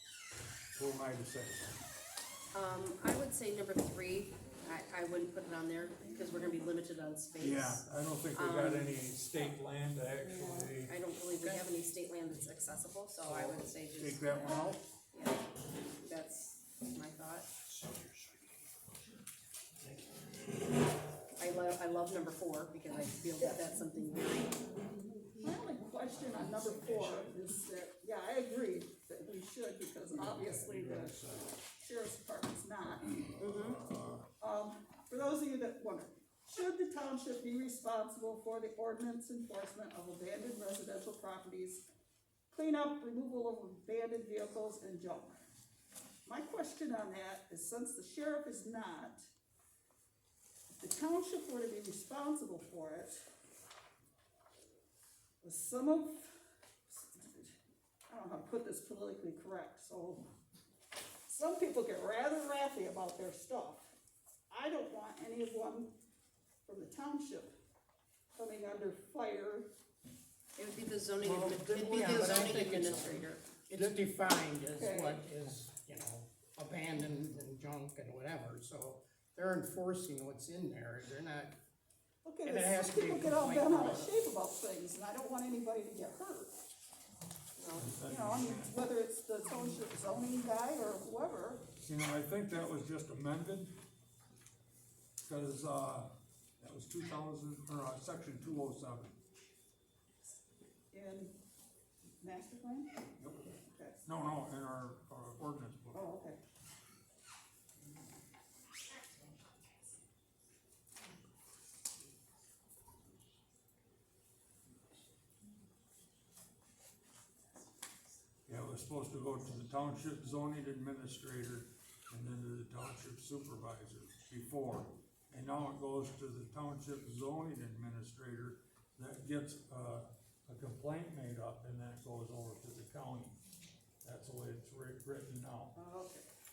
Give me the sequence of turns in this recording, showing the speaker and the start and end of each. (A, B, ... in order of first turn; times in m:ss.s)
0:00.7-0:01.8 A
0:02.5-0:09.0 B
0:07.4-0:11.7 A
0:10.2-0:10.7 C
0:10.8-0:15.5 B
0:13.2-0:14.8 A
0:16.0-0:17.5 B
0:21.4-0:24.6 B
0:25.4-0:33.2 C
0:30.1-0:31.5 A
0:33.2-0:34.2 A
0:33.4-0:33.8 B
0:34.4-0:41.8 C
0:42.5-0:45.4 C
0:46.2-0:49.2 C
0:50.7-0:53.2 C
0:55.4-0:57.5 C
0:58.1-1:00.3 C
1:01.3-1:03.9 C
1:04.5-1:06.0 C
1:06.7-1:07.5 C
1:08.4-1:09.7 C
1:10.6-1:13.4 B
1:11.2-1:21.6 D
1:14.7-1:15.3 C
1:22.2-1:26.5 C
1:22.4-1:24.1 D
1:27.6-1:27.9 B
1:27.7-1:28.8 A
1:28.0-1:31.6 C
1:31.8-1:33.7 A
1:35.3-1:39.2 A
1:40.9-1:41.3 C
1:42.2-1:42.9 C
1:43.2-1:43.5 A
1:43.5-1:44.0 C
1:44.0-1:46.1 A
1:45.9-1:46.4 C
1:58.5-2:13.4 A
2:14.0-2:15.8 A
2:15.7-2:16.3 C